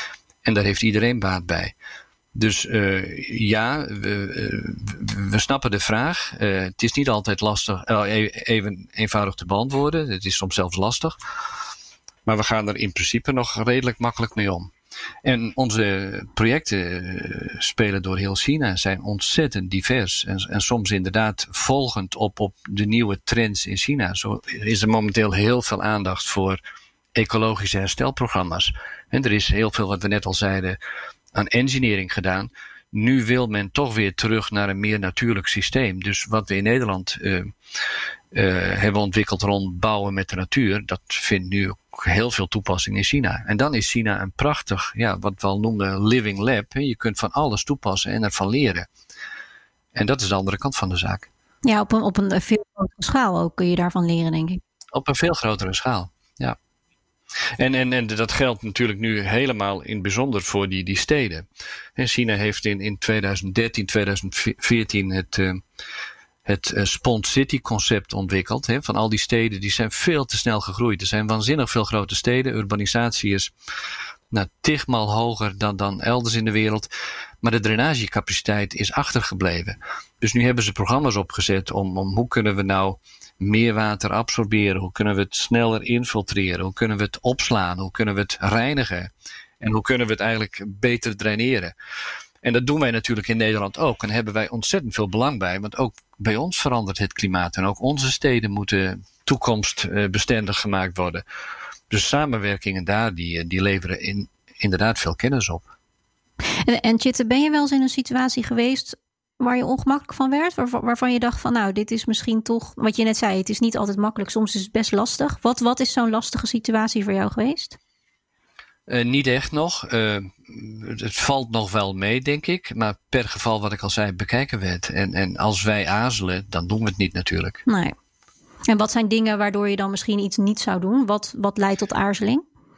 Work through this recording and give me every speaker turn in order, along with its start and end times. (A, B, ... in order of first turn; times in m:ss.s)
0:00.4-0:01.7 A
0:02.4-0:11.2 A
0:12.2-0:14.7 A
0:15.2-0:26.6 A
0:27.1-0:30.8 A
0:31.3-0:37.5 A
0:38.3-0:48.9 A
0:49.9-0:51.3 A
0:51.6-0:54.6 B
0:54.9-0:56.6 A
0:57.6-1:05.6 A
1:06.4-1:13.5 A
1:14.3-1:16.9 A
1:17.4-1:29.1 A
1:29.6-1:31.7 A
1:32.4-1:41.2 A
1:41.9-1:45.7 A
1:46.6-1:57.8 B
1:58.9-2:07.6 A
2:07.7-2:07.9 B
2:08.7-2:12.4 B